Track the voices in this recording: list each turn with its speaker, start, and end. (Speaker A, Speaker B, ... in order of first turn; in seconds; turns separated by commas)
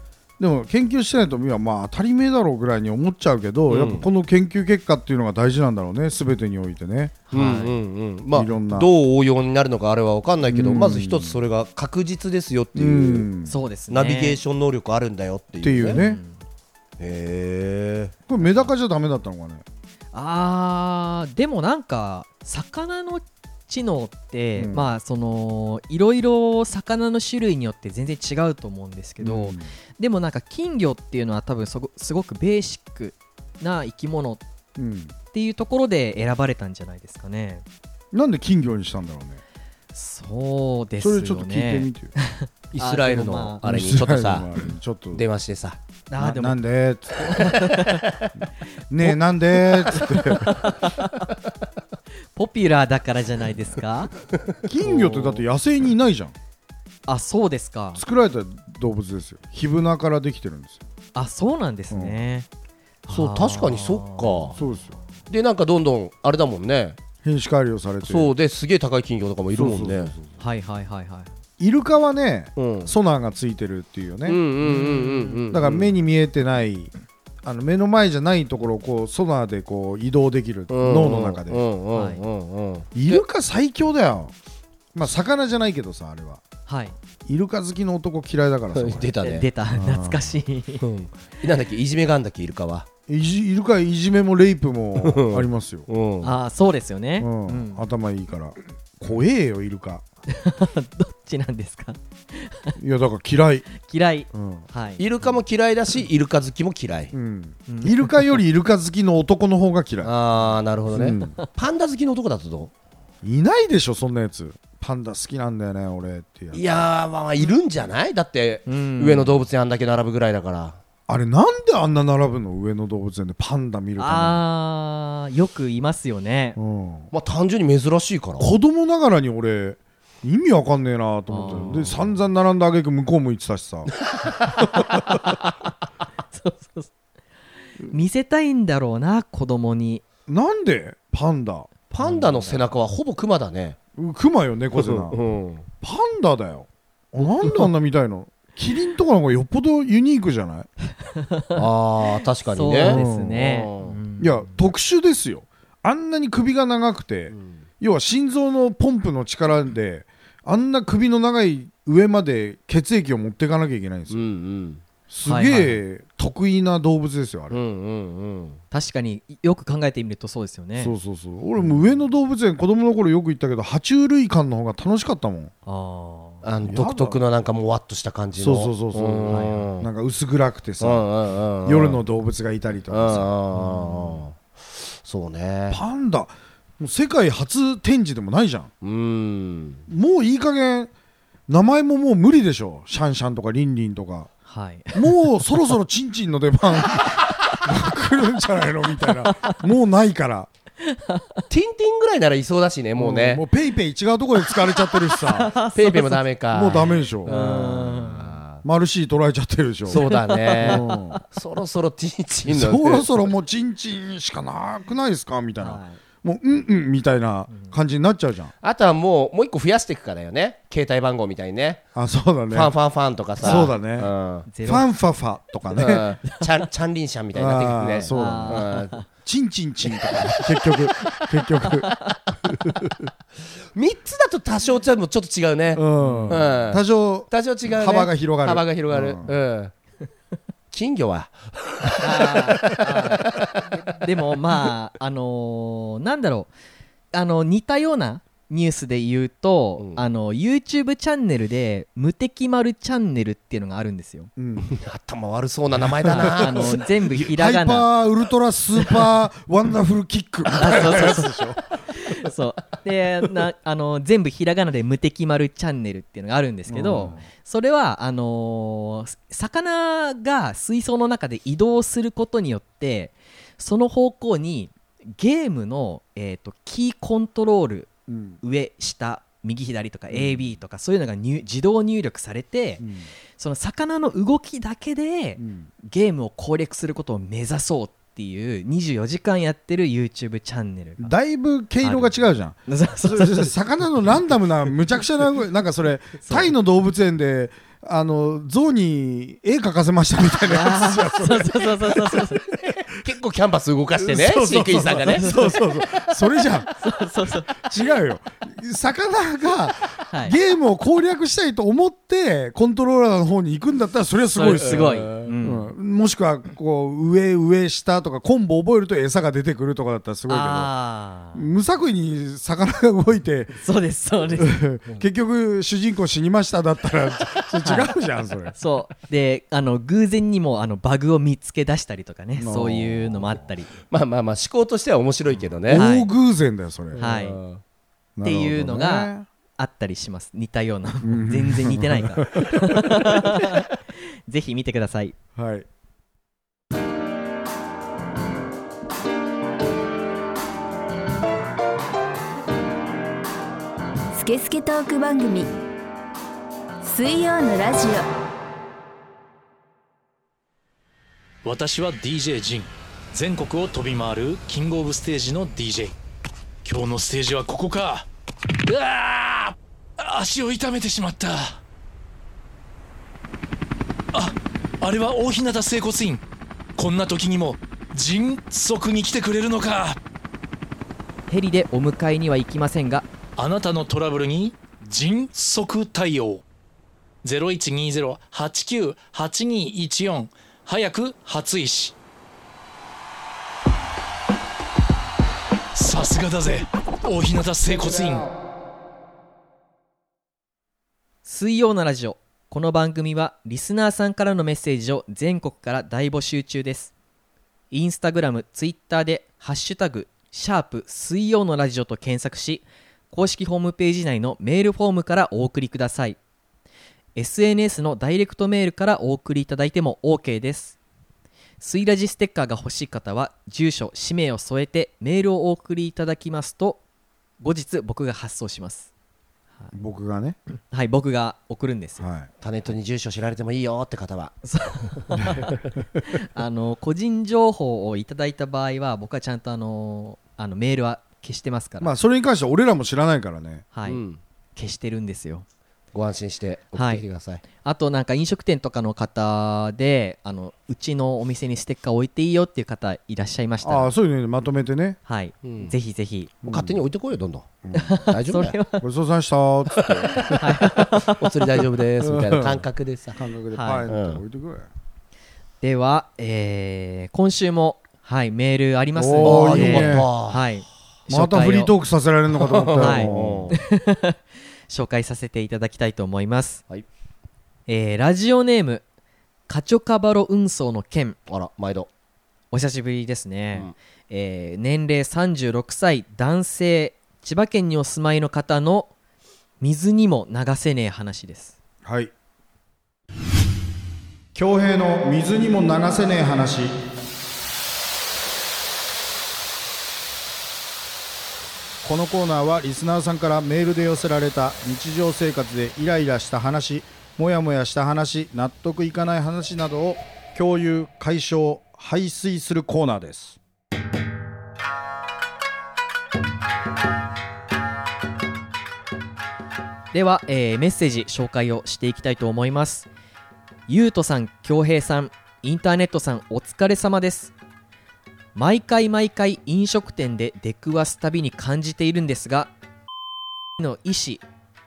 Speaker A: 0.4-7.2, Speaker B: 3.7-4.1, Speaker C: 7.3-7.8, Speaker B: 7.3-13.3, Speaker A: 8.3-8.9, Speaker A: 10.5-11.4, Speaker A: 12.8-13.6, Speaker C: 13.5-14.4, Speaker B: 13.9-16.0, Speaker A: 15.6-16.2, Speaker C: 15.9-16.4, Speaker B: 17.0-18.1, Speaker A: 18.3-19.6, Speaker C: 20.1-34.4, Speaker A: 24.6-24.9, Speaker A: 29.2-29.7, Speaker A: 34.8-35.1, Speaker C: 35.3-37.6, Speaker A: 38.1-39.4, Speaker C: 39.9-43.6, Speaker A: 41.0-42.1, Speaker B: 42.7-44.5, Speaker A: 43.6-45.2, Speaker B: 45.1-45.8, Speaker C: 46.1-46.6, Speaker A: 46.2-47.7, Speaker C: 47.2-48.1, Speaker A: 48.9-50.6, Speaker C: 49.9-51.3, Speaker C: 52.4-54.1, Speaker A: 54.6-56.4, Speaker C: 54.8-55.4, Speaker C: 57.1-58.0, Speaker A: 58.0-60.8, Speaker C: 61.1-62.5, Speaker A: 61.9-62.2, Speaker C: 63.1-64.7, Speaker B: 63.1-64.6, Speaker A: 64.6-65.0, Speaker B: 65.3-67.0, Speaker A: 67.2-68.3, Speaker B: 68.0-70.2, Speaker A: 69.5-70.4, Speaker C: 70.4-71.3, Speaker A: 71.6-74.4, Speaker B: 72.6-72.9, Speaker B: 74.2-76.0, Speaker C: 74.6-75.4, Speaker A: 75.5-76.9, Speaker A: 77.4-81.6, Speaker B: 80.7-83.2, Speaker C: 82.0-82.2, Speaker A: 83.0-84.3, Speaker A: 84.9-86.4, Speaker C: 86.7-87.0, Speaker A: 87.3-89.1, Speaker B: 88.7-89.5, Speaker C: 89.2-90.8, Speaker A: 89.7-90.3, Speaker B: 90.8-92.9, Speaker A: 93.1-95.9, Speaker B: 95.0-96.3, Speaker C: 96.2-97.8, Speaker A: 97.2-100.0, Speaker C: 100.3-102.8, Speaker A: 102.8-103.7, Speaker C: 103.8-105.0, Speaker A: 104.3-104.7, Speaker B: 105.0-107.1, Speaker A: 107.1-110.1, Speaker C: 107.7-108.2, Speaker B: 110.0-112.7, Speaker A: 110.9-111.4, Speaker A: 113.2-116.6, Speaker B: 116.5-120.8, Speaker C: 118.7-119.4, Speaker A: 121.1-124.4, Speaker C: 124.0-126.6, Speaker A: 126.6-127.1, Speaker B: 127.1-128.6, Speaker A: 128.4-133.9, Speaker C: 131.3-131.9, Speaker B: 131.4-132.1, Speaker C: 134.6-135.7, Speaker C: 136.3-136.9, Speaker C: 137.8-140.0, Speaker A: 140.3-142.6, Speaker B: 141.9-143.8, Speaker A: 144.0-145.2, Speaker B: 144.8-145.7, Speaker A: 145.8-150.7, Speaker C: 151.2-151.6, Speaker B: 151.6-154.0, Speaker C: 152.5-154.6, Speaker A: 152.8-153.4, Speaker A: 154.2-164.2, Speaker B: 157.3-157.6, Speaker B: 164.1-164.8, Speaker A: 165.1-167.6, Speaker C: 165.3-165.8, Speaker B: 167.5-168.6, Speaker C: 168.7-171.0, Speaker A: 170.8-175.5, Speaker C: 175.7-176.4, Speaker B: 176.4-179.9, Speaker A: 176.6-177.2, Speaker A: 178.4-181.1, Speaker C: 179.3-179.7, Speaker B: 180.8-182.0, Speaker A: 181.7-183.3, Speaker B: 182.9-184.4, Speaker C: 183.6-184.2, Speaker B: 185.0-185.8, Speaker A: 185.7-188.7, Speaker B: 188.8-189.8, Speaker A: 189.9-190.9, Speaker A: 191.5-194.3, Speaker C: 194.5-195.2, Speaker A: 194.9-200.5, Speaker C: 199.2-199.5, Speaker C: 200.8-201.4, Speaker B: 201.5-203.4, Speaker A: 203.0-205.5, Speaker C: 205.2-208.4, Speaker B: 205.7-208.6, Speaker A: 206.5-207.4, Speaker A: 208.6-210.1, Speaker B: 209.9-213.1, Speaker C: 209.9-211.2, Speaker A: 210.6-211.2, Speaker A: 212.5-218.5, Speaker C: 215.6-216.0, Speaker B: 218.6-221.9, Speaker A: 221.9-222.7, Speaker B: 222.5-224.5, Speaker A: 223.4-224.1, Speaker C: 224.5-224.9, Speaker A: 224.6-226.1, Speaker B: 225.8-228.9, Speaker A: 227.3-233.1, Speaker C: 228.1-229.1, Speaker C: 231.1-232.2, Speaker B: 233.7-239.7, Speaker A: 235.8-239.3, Speaker C: 236.0-236.6, Speaker B: 240.7-243.7, Speaker C: 242.0-246.5, Speaker C: 247.1-254.3, Speaker B: 249.8-250.0, Speaker A: 254.4-254.8, Speaker B: 254.6-256.8, Speaker A: 256.1-261.6, Speaker C: 256.1-257.9, Speaker C: 260.5-277.9, Speaker A: 266.7-267.2, Speaker A: 278.1-278.4, Speaker C: 278.4-291.1, Speaker A: 280.1-280.4, Speaker A: 282.8-283.1, Speaker A: 285.4-285.7, Speaker A: 291.0-302.2, Speaker C: 291.8-292.1, Speaker C: 292.7-293.5, Speaker C: 296.2-296.5, Speaker C: 300.5-302.4, Speaker B: 302.5-305.6, Speaker A: 304.0-306.7, Speaker C: 305.1-305.6, Speaker C: 306.8-307.7, Speaker A: 307.6-320.7, Speaker C: 310.1-310.4, Speaker C: 314.3-315.7, Speaker B: 314.5-315.3, Speaker C: 320.3-321.5, Speaker A: 321.3-323.6, Speaker C: 323.6-324.6, Speaker A: 324.4-328.6, Speaker C: 327.6-327.9, Speaker C: 328.6-333.7, Speaker A: 332.4-333.4, Speaker B: 333.9-335.9, Speaker A: 335.7-337.0, Speaker C: 335.7-336.1, Speaker B: 336.9-337.6, Speaker C: 337.0-337.4, Speaker A: 338.2-339.3, Speaker C: 338.2-345.1, Speaker A: 341.0-343.4, Speaker A: 345.4-345.7, Speaker D: 354.1-355.5, Speaker D: 356.8-358.1, Speaker E: 361.4-365.9, Speaker E: 366.6-368.1, Speaker E: 368.7-371.6, Speaker E: 374.1-376.2, Speaker E: 376.8-380.0, Speaker C: 381.3-383.1, Speaker E: 383.4-386.4, Speaker E: 387.2-392.0, Speaker E: 395.8-398.3, Speaker C: 401.2-406.9, Speaker C: 407.7-416.2, Speaker C: 417.2-420.8, Speaker C: 421.6-426.8, Speaker C: 427.4-428.9, Speaker A: 429.7-430.4, Speaker C: 430.7-432.1, Speaker A: 432.0-432.3, Speaker B: 432.4-434.4, Speaker C: 434.4-441.9, Speaker A: 435.2-435.4, Speaker A: 441.8-443.7, Speaker C: 443.7-444.0, Speaker B: 443.9-444.2, Speaker C: 444.6-445.4, Speaker B: 445.9-447.4, Speaker C: 446.8-447.0, Speaker C: 447.6-453.9, Speaker A: 453.6-455.0, Speaker C: 455.1-456.3, Speaker B: 455.4-455.7, Speaker A: 456.4-456.8, Speaker B: 456.5-458.6, Speaker A: 457.6-457.9, Speaker C: 457.7-458.8, Speaker A: 458.8-460.3, Speaker B: 459.8-463.2, Speaker C: 460.3-461.3, Speaker A: 462.0-464.7, Speaker C: 463.5-463.9, Speaker B: 463.9-464.2, Speaker C: 465.6-471.8, Speaker A: 468.9-470.1, Speaker B: 469.2-470.5, Speaker A: 471.1-473.6, Speaker B: 472.4-473.6, Speaker C: 472.8-474.2, Speaker C: 474.7-476.6, Speaker C: 477.7-478.8, Speaker C: 479.5-481.2, Speaker B: 481.3-481.9, Speaker C: 482.5-488.9, Speaker C: 489.6-491.6, Speaker A: 491.9-492.1, Speaker A: 494.4-496.8, Speaker A: 501.8-513.4, Speaker C: 519.9-522.9, Speaker C: 523.7-527.3, Speaker C: 528.4-532.5, Speaker C: 533.6-534.2